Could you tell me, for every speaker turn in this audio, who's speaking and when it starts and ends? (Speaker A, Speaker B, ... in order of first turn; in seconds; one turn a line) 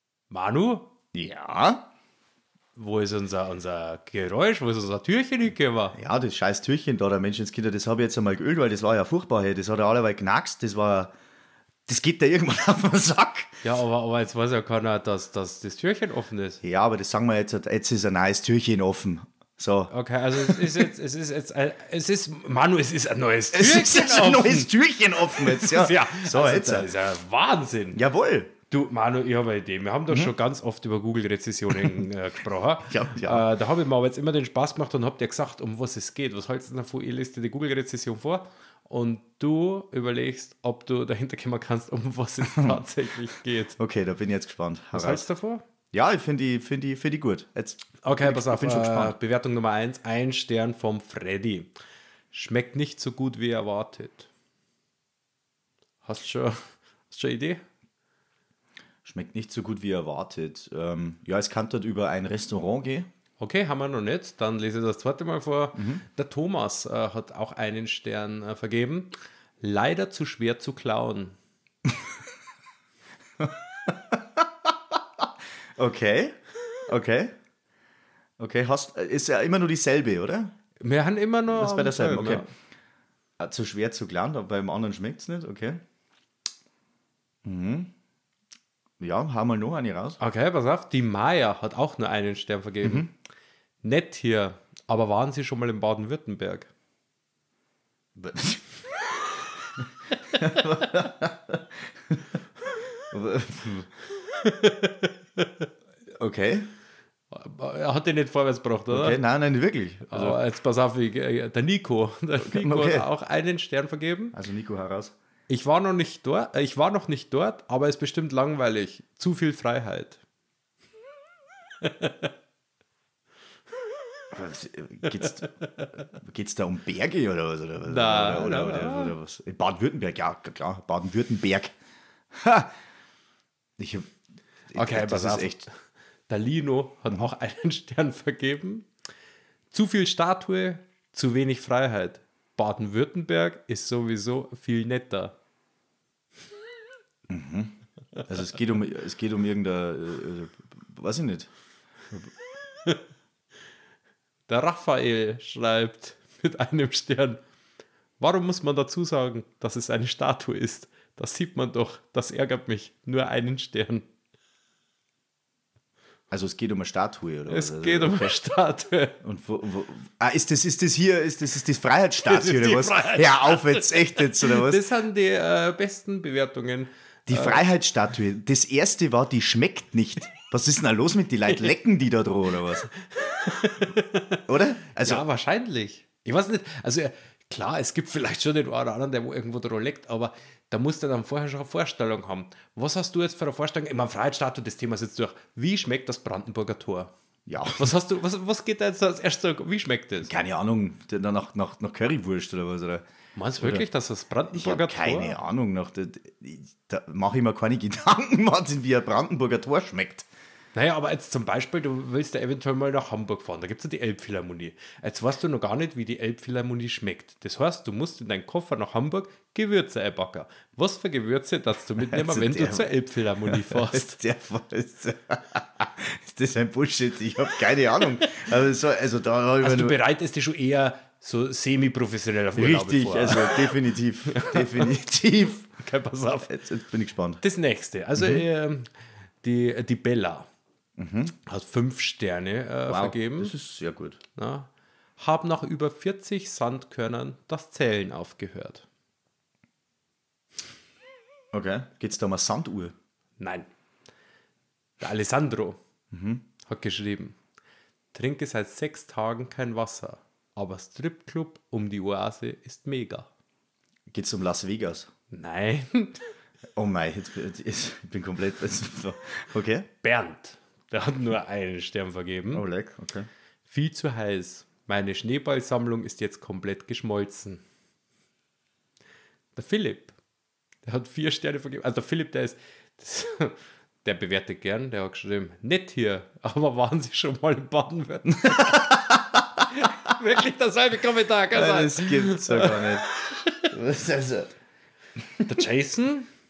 Speaker A: 0.3-0.9
Speaker B: 1.1-1.8
Speaker A: 2.8-6.0
Speaker B: 6.0-11.1
Speaker B: 11.9-13.6
Speaker A: 13.6-16.6
Speaker B: 16.6-20.9
Speaker A: 19.9-24.7
Speaker B: 23.5-26.9
Speaker A: 25.3-28.0
Speaker B: 27.9-28.5
Speaker A: 28.7-43.8
Speaker B: 30.1-30.3
Speaker B: 31.7-32.1
Speaker B: 32.9-33.5
Speaker B: 42.4-42.9
Speaker B: 43.8-45.3
Speaker A: 44.9-45.6
Speaker B: 45.9-49.1
Speaker A: 48.0-51.7
Speaker A: 52.3-54.3
Speaker A: 56.0-56.6
Speaker A: 57.1-57.6
Speaker B: 59.0-63.1
Speaker A: 63.4-71.4
Speaker B: 65.8-66.0
Speaker B: 73.4-74.4
Speaker B: 75.8-76.4
Speaker B: 76.9-77.3
Speaker B: 78.4-80.5
Speaker A: 80.8-82.5
Speaker B: 81.5-82.5
Speaker B: 83.4-85.8
Speaker B: 87.5-87.9
Speaker B: 89.0-90.2
Speaker A: 90.2-93.1
Speaker B: 92.8-93.1
Speaker A: 93.8-96.7
Speaker B: 98.2-98.8
Speaker B: 100.3-102.2
Speaker B: 103.1-103.9
Speaker A: 104.2-105.7
Speaker B: 106.2-106.7
Speaker A: 107.3-109.2
Speaker B: 108.9-110.4
Speaker A: 110.1-114.3
Speaker B: 112.4-113.1
Speaker B: 114.3-115.1
Speaker A: 115.5-120.2
Speaker A: 121.8-122.3
Speaker B: 124.3-125.5
Speaker A: 125.2-125.9
Speaker B: 126.1-131.7
Speaker A: 127.8-129.2
Speaker B: 132.3-132.7
Speaker B: 133.8-134.1
Speaker B: 134.7-135.6
Speaker A: 134.7-135.7
Speaker A: 136.3-138.9
Speaker A: 139.7-145.4
Speaker B: 147.3-151.5
Speaker A: 154.5-157.4
Speaker A: 158.2-164.1
Speaker B: 166.3-168.4
Speaker A: 167.5-169.2
Speaker B: 169.2-174.8
Speaker A: 172.2-177.7
Speaker B: 177.3-182.9
Speaker A: 183.0-197.1
Speaker B: 184.5-185.3
Speaker B: 197.5-197.9
Speaker A: 197.7-200.3
Speaker B: 200.2-203.0
Speaker A: 203.3-205.4
Speaker B: 203.6-203.8
Speaker B: 204.5-210.3
Speaker A: 210.8-224.2
Speaker B: 222.0-230.0
Speaker A: 229.6-233.7
Speaker B: 232.6-235.7
Speaker A: 234.3-234.9
Speaker A: 235.8-236.5
Speaker B: 236.5-237.4
Speaker A: 237.4-238.9
Speaker B: 238.2-238.4
Speaker A: 239.4-240.5
Speaker B: 241.0-241.3
Speaker A: 241.5-243.5
Speaker B: 242.9-244.2
Speaker A: 244.3-248.8
Speaker B: 251.5-252.9
Speaker A: 253.4-253.7
Speaker A: 255.0-255.8
Speaker B: 256.1-256.4
Speaker A: 256.7-257.4
Speaker A: 258.1-263.3
Speaker B: 264.1-265.1
Speaker A: 265.3-266.2
Speaker B: 266.8-269.9
Speaker A: 270.0-272.6
Speaker B: 272.5-273.3
Speaker A: 273.7-277.6
Speaker A: 279.6-280.1
Speaker A: 280.8-293.7
Speaker B: 288.5-289.2
Speaker B: 291.5-293.1
Speaker B: 293.7-294.6
Speaker A: 295.4-296.3